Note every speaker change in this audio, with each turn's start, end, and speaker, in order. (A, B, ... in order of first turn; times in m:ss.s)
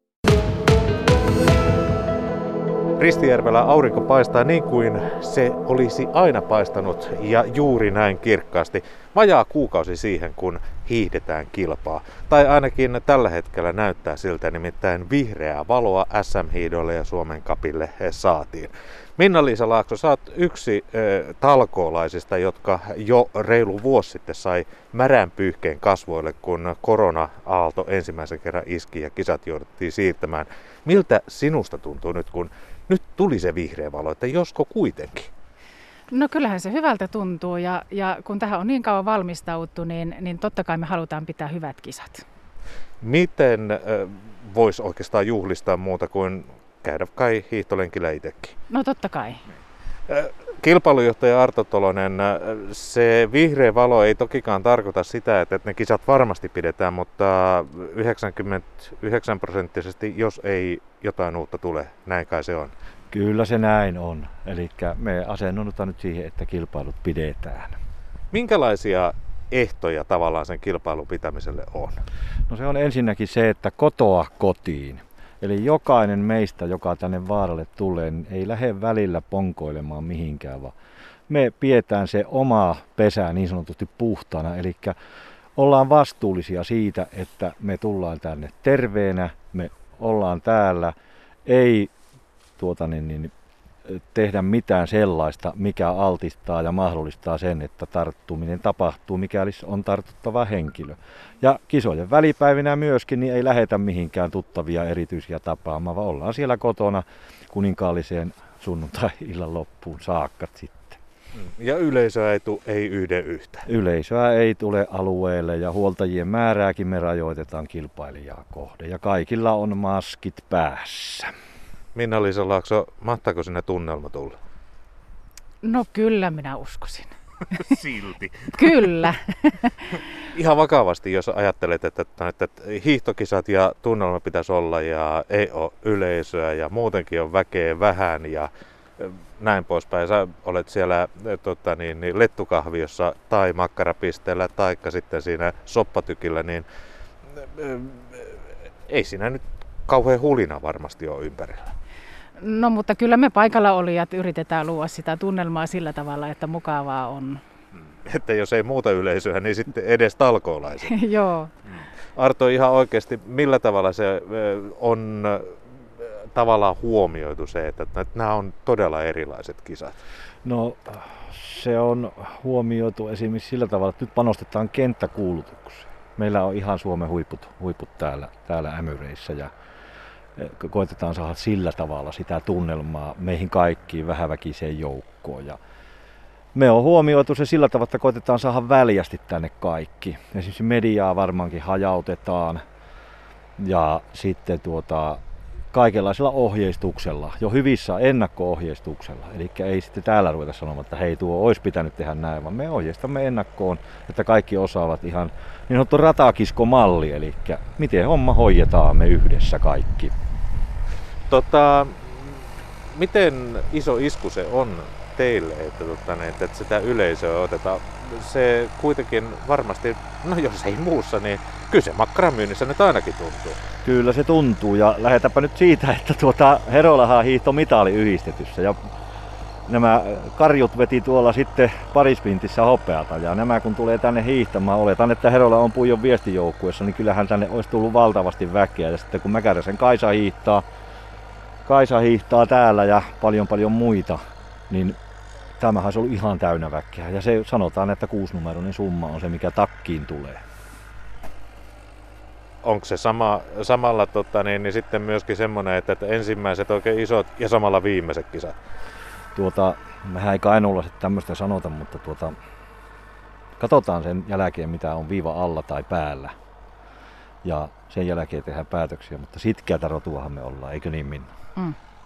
0:03.0-0:35.3 A
0:36.1-0:42.2 B
0:43.0-0:48.6 A
0:48.7-0:49.4 B
0:50.1-1:02.7 A
1:03.1-1:07.7 C
1:08.3-1:12.0 A
1:12.5-1:20.7 C
1:21.3-1:24.9 C
1:25.6-1:30.9 C
1:31.4-1:31.9 C
1:32.6-1:33.3 C
1:33.9-1:51.0 C
1:51.3-1:53.7 A
1:53.6-2:01.3 C
2:01.9-2:04.4 A
2:05.6-2:07.1 B
2:07.5-2:08.5 A
2:08.5-2:10.0 B
2:10.2-2:26.6 A
2:27.3-2:31.7 A
2:32.4-2:37.4 B
2:38.0-2:41.0 A
2:40.8-2:41.5 B
2:42.1-2:50.0 A
2:50.4-2:59.5 C
3:00.4-3:05.6 C
3:06.5-3:12.6 C
3:13.6-3:15.2 C
3:15.7-3:30.1 C
3:31.3-3:43.6 A
3:43.8-3:48.8 C
3:49.7-4:00.6 C
4:01.6-4:04.2 C
4:04.7-4:05.0 C
4:05.6-4:10.4 C
4:12.6-4:18.6 A
4:19.3-4:22.4 C
4:23.6-4:26.3 C
4:27.4-4:31.3 C